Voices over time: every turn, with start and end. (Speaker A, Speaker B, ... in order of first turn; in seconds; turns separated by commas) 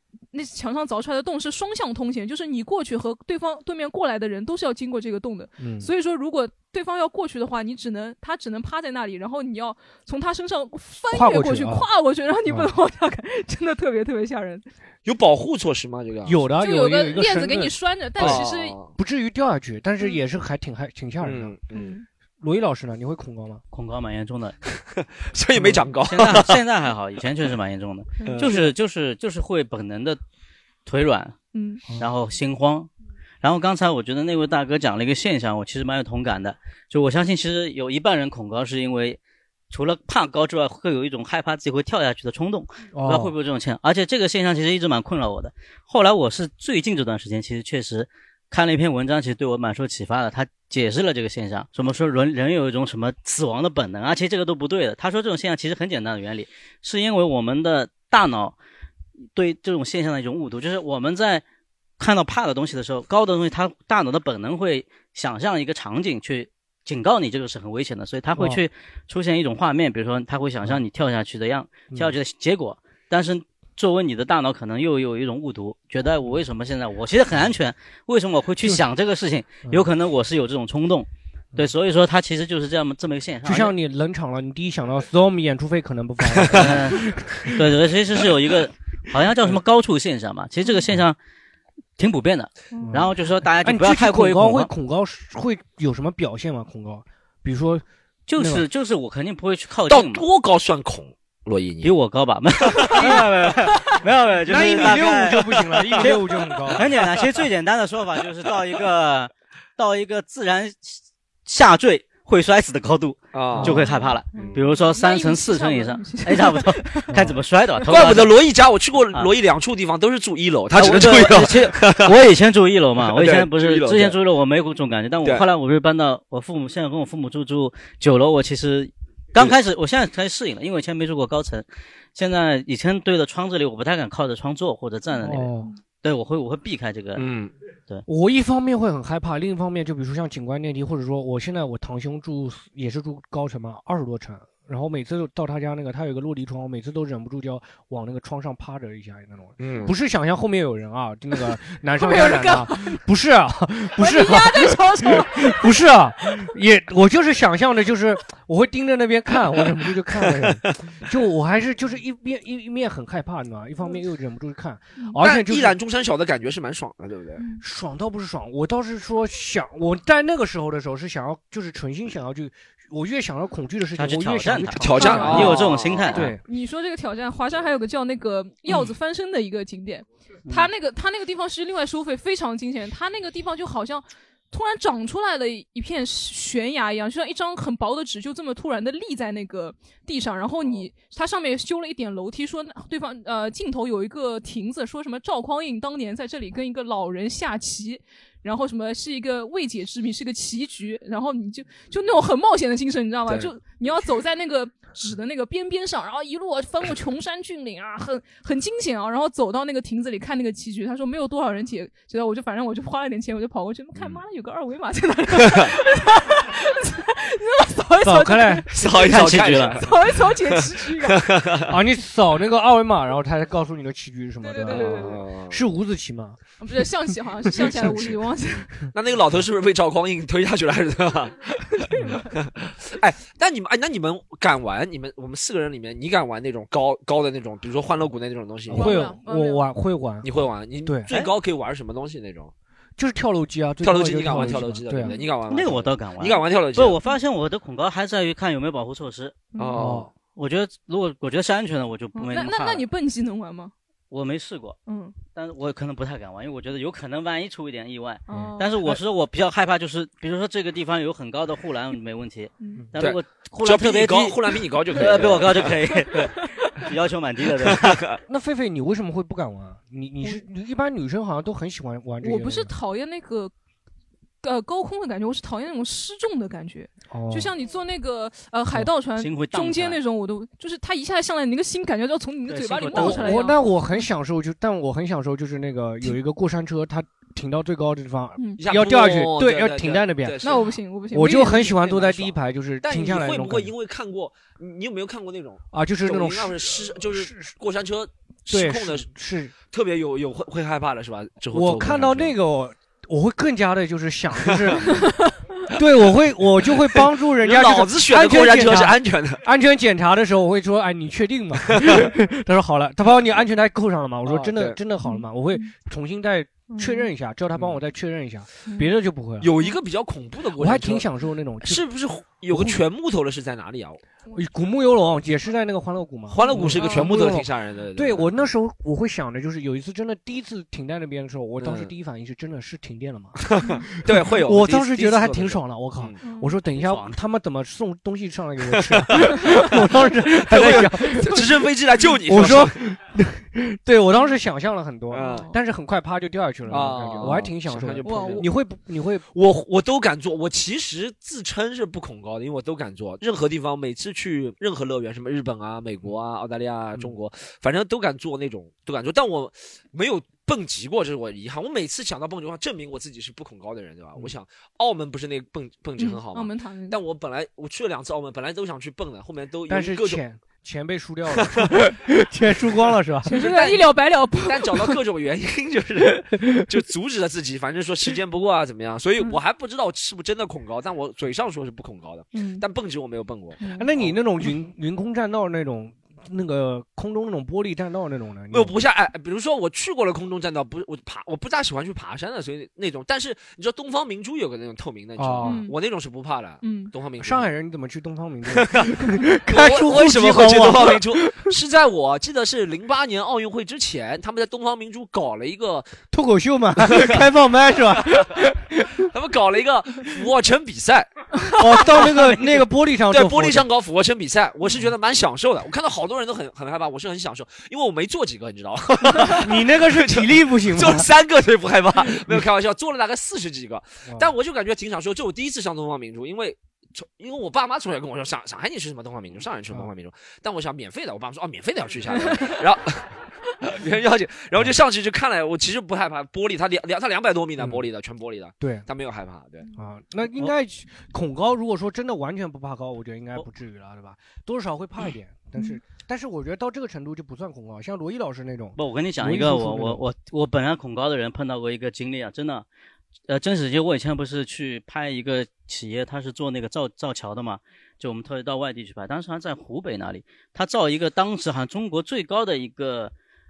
Speaker A: 0.3-14.7, Speaker B: 5.6-5.9, Speaker B: 11.1-11.8, Speaker C: 15.0-16.4, Speaker B: 16.2-21.6, Speaker A: 16.6-18.8, Speaker C: 18.2-18.9, Speaker C: 21.2-21.9, Speaker A: 21.7-22.1, Speaker B: 22.4-23.6, Speaker D: 23.7-24.6, Speaker C: 25.0-26.6, Speaker B: 25.6-25.9, Speaker D: 26.0-30.2, Speaker A: 28.2-28.6, Speaker C: 28.2-28.5, Speaker D: 30.9-31.4, Speaker A: 31.5-31.8, Speaker D: 32.0-32.9, Speaker D: 33.4-39.2, Speaker D: 39.7-58.5, Speaker B: 42.9-43.3, Speaker D: 59.3-61.4, Speaker D: 62.0-83.7, Speaker B: 68.3-68.6, Speaker B: 83.4-87.2, Speaker D: 86.5-91.2, Speaker D: 92.0-94.7, Speaker B: 92.8-93.1, Speaker B: 93.6-97.8, Speaker D: 98.3-100.2, Speaker B: 98.4-98.6, Speaker C: 99.9-101.9, Speaker D: 101.8-118.3, Speaker B: 102.9-103.5, Speaker B: 104.5-106.9, Speaker C: 113.3-114.6, Speaker B: 113.5-113.8, Speaker A: 113.7-117.1, Speaker C: 117.8-122.2, Speaker D: 120.7-137.2, Speaker C: 123.0-124.2, Speaker B: 135.2-135.7, Speaker C: 137.2-137.5, Speaker B: 138.1-165.8, Speaker C: 149.6-149.9, Speaker A: 151.9-153.0, Speaker A: 153.9-155.8, Speaker C: 165.2-167.4, Speaker B: 167.6-176.4, Speaker D: 173.9-176.4, Speaker C: 174.8-176.2, Speaker A: 175.0-175.6, Speaker A: 176.4-218.8, Speaker D: 180.5-180.7, Speaker C: 203.3-203.5, Speaker C: 213.9-214.2, Speaker C: 215.4-215.7, Speaker B: 218.0-218.7, Speaker C: 218.7-221.7, Speaker D: 218.8-219.9, Speaker A: 219.7-221.3, Speaker B: 221.7-226.4, Speaker A: 224.4-225.2, Speaker C: 224.6-225.6, Speaker A: 226.6-228.8, Speaker C: 228.9-239.1, Speaker A: 231.8-232.3, Speaker B: 238.7-240.3, Speaker A: 238.7-239.7, Speaker C: 240.2-242.5, Speaker B: 240.8-241.1, Speaker B: 243.0-245.2, Speaker C: 243.8-247.0, Speaker A: 245.0-245.3, Speaker D: 245.5-249.5, Speaker A: 249.5-249.8, Speaker C: 249.6-250.1, Speaker B: 249.7-250.1, Speaker D: 250.3-252.9, Speaker A: 252.1-253.7, Speaker D: 254.1-268.0, Speaker A: 254.8-255.2, Speaker A: 258.3-259.0, Speaker A: 262.6-262.9, Speaker C: 262.9-266.0, Speaker C: 267.4-268.2, Speaker B: 268.3-272.7, Speaker A: 272.2-273.5, Speaker A: 274.4-284.0, Speaker B: 277.1-277.5, Speaker D: 279.1-280.0, Speaker D: 282.4-283.5, Speaker B: 282.9-290.4, Speaker A: 288.4-288.6, Speaker C: 288.6-290.8, Speaker A: 290.4-291.9, Speaker B: 291.1-293.7, Speaker C: 291.8-299.1, Speaker B: 295.7-297.5, Speaker B: 298.5-299.5, Speaker C: 299.7-302.3, Speaker B: 301.5-305.1, Speaker C: 304.4-304.8, Speaker B: 305.7-319.5, Speaker C: 306.6-309.4, Speaker C: 311.8-312.0, Speaker C: 314.2-314.8, Speaker A: 315.0-315.7, Speaker A: 316.7-317.1, Speaker A: 318.6-318.9, Speaker C: 319.4-321.1, Speaker B: 320.6-321.8, Speaker C: 321.6-324.0, Speaker B: 322.5-322.8, Speaker B: 324.3-333.4, Speaker C: 326.3-328.5, Speaker A: 326.5-327.1, Speaker C: 331.6-331.9, Speaker C: 333.4-336.2, Speaker B: 334.1-341.5, Speaker A: 336.2-336.6, Speaker D: 336.6-337.2, Speaker C: 338.8-342.8, Speaker B: 342.2-349.2, Speaker C: 345.1-345.5, Speaker A: 345.3-345.5, Speaker C: 346.7-348.5, Speaker A: 348.0-348.6, Speaker C: 349.3-370.2, Speaker A: 366.0-367.0, Speaker B: 369.7-373.4, Speaker C: 371.4-371.8, Speaker A: 373.2-375.0, Speaker C: 373.3-384.1, Speaker A: 382.3-382.6, Speaker B: 383.8-388.7, Speaker C: 388.5-397.5, Speaker B: 395.2-395.6, Speaker A: 395.4-395.8, Speaker A: 396.6-396.9, Speaker B: 397.2-401.5, Speaker C: 398.5-406.0, Speaker B: 406.1-409.0, Speaker C: 406.8-407.2, Speaker C: 409.0-411.1, Speaker B: 411.6-413.7, Speaker C: 411.8-412.4, Speaker C: 413.1-439.6, Speaker B: 419.3-421.1, Speaker A: 432.2-432.5, Speaker B: 437.6-437.8, Speaker B: 438.6-438.9, Speaker B: 439.8-450.0, Speaker D: 448.8-452.6, Speaker D: 453.3-463.1